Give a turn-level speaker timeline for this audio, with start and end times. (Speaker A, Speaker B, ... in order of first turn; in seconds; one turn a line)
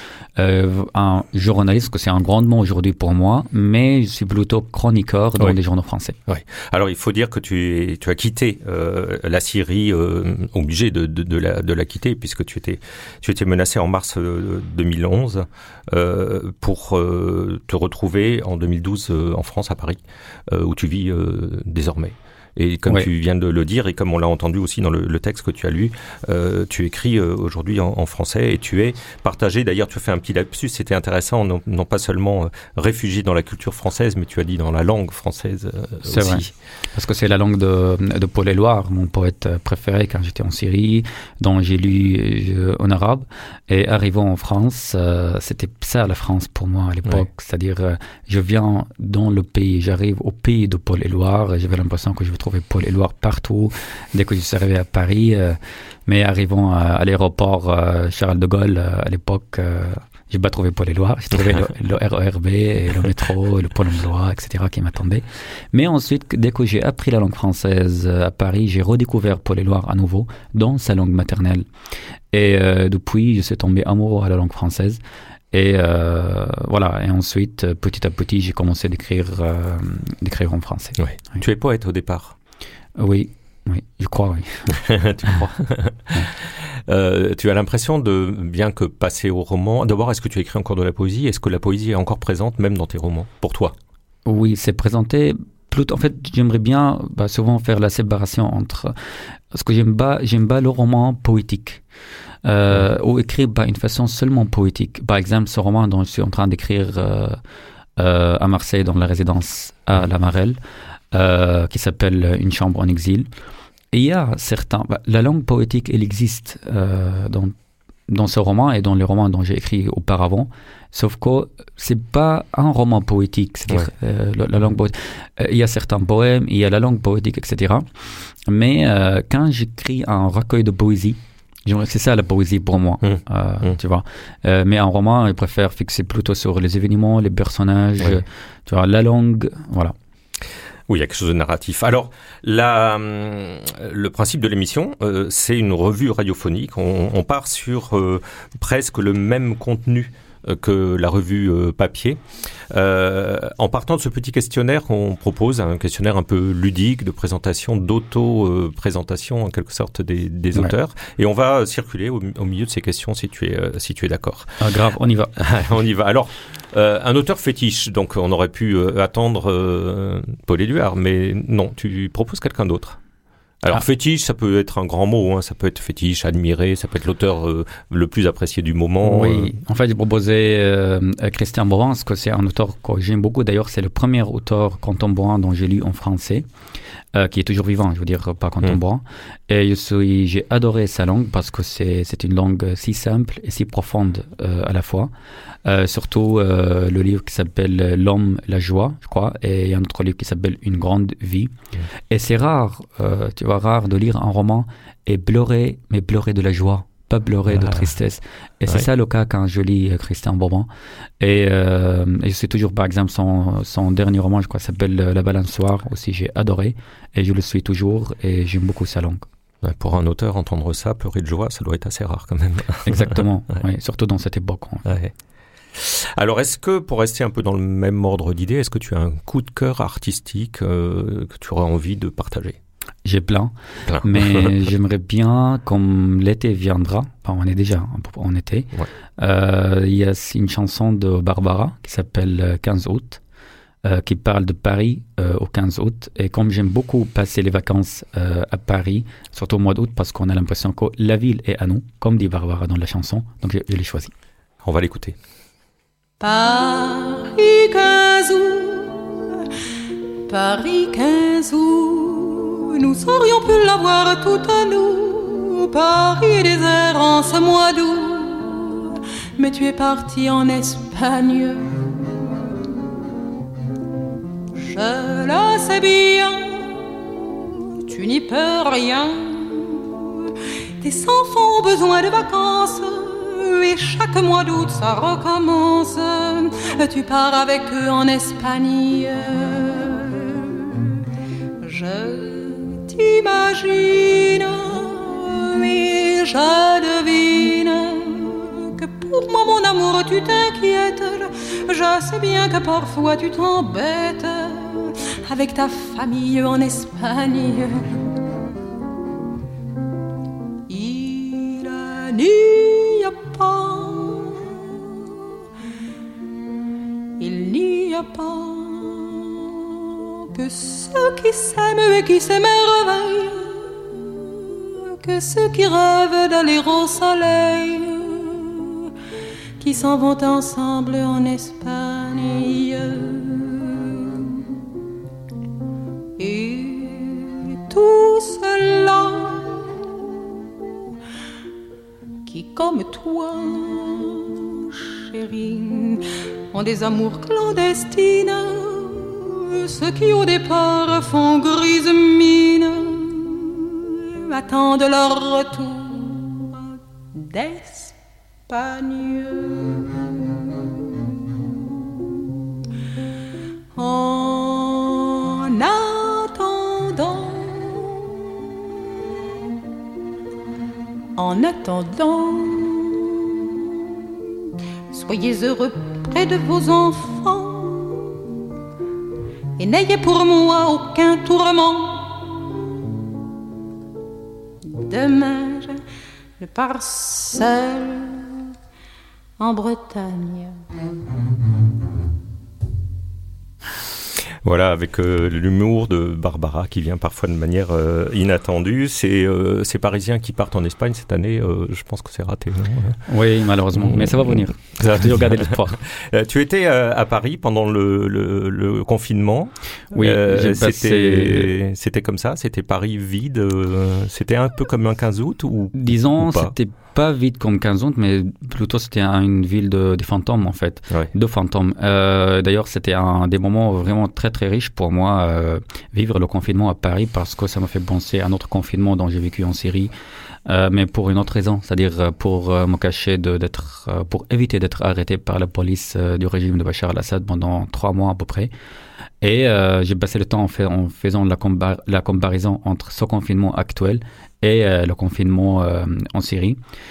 Speaker A: 0.4-6.2
Speaker B: 6.3-36.5
Speaker A: 36.0-71.7
Speaker A: 72.3-75.0
Speaker A: 75.5-81.0
Speaker B: 81.0-82.3
Speaker A: 83.0-84.8
Speaker B: 84.7-93.7
Speaker A: 94.2-98.9
Speaker A: 99.5-101.8
Speaker A: 102.4-107.4
Speaker A: 108.0-110.6
Speaker A: 111.1-113.3
Speaker A: 113.9-117.5
Speaker A: 118.1-127.9
Speaker A: 128.5-139.9
Speaker B: 133.0-133.8
Speaker B: 140.9-164.6
Speaker A: 164.6-165.3
Speaker B: 165.4-173.0
Speaker B: 173.6-179.6
Speaker A: 179.0-186.5
Speaker A: 187.1-195.1
Speaker A: 195.6-201.5
Speaker A: 202.1-210.7
Speaker B: 207.5-207.9
Speaker A: 211.2-219.3
Speaker B: 219.6-223.2
Speaker A: 222.8-224.9
Speaker B: 224.8-225.1
Speaker B: 225.7-232.6
Speaker A: 233.0-243.2
Speaker B: 233.9-234.6
Speaker A: 243.8-254.1
Speaker B: 254.6-255.2
Speaker C: 256.2-259.5
Speaker C: 260.3-272.9
Speaker C: 274.5-291.0
Speaker C: 291.6-308.1
Speaker C: 310.7-315.3
Speaker C: 317.2-328.9
Speaker C: 329.6-334.6
Speaker C: 336.2-340.2
Speaker C: 342.2-357.9
Speaker C: 358.5-360.7
Speaker C: 363.7-368.5
Speaker C: 371.1-374.2
Speaker C: 374.9-378.3
Speaker C: 379.6-382.9
Speaker C: 384.6-385.8
Speaker C: 386.4-388.5
Speaker C: 389.4-390.6
Speaker B: 394.4-403.0
Speaker A: 403.1-405.8
Speaker B: 403.8-416.5
Speaker A: 409.9-411.5
Speaker A: 415.7-429.9
Speaker A: 430.4-438.5
Speaker A: 439.2-446.6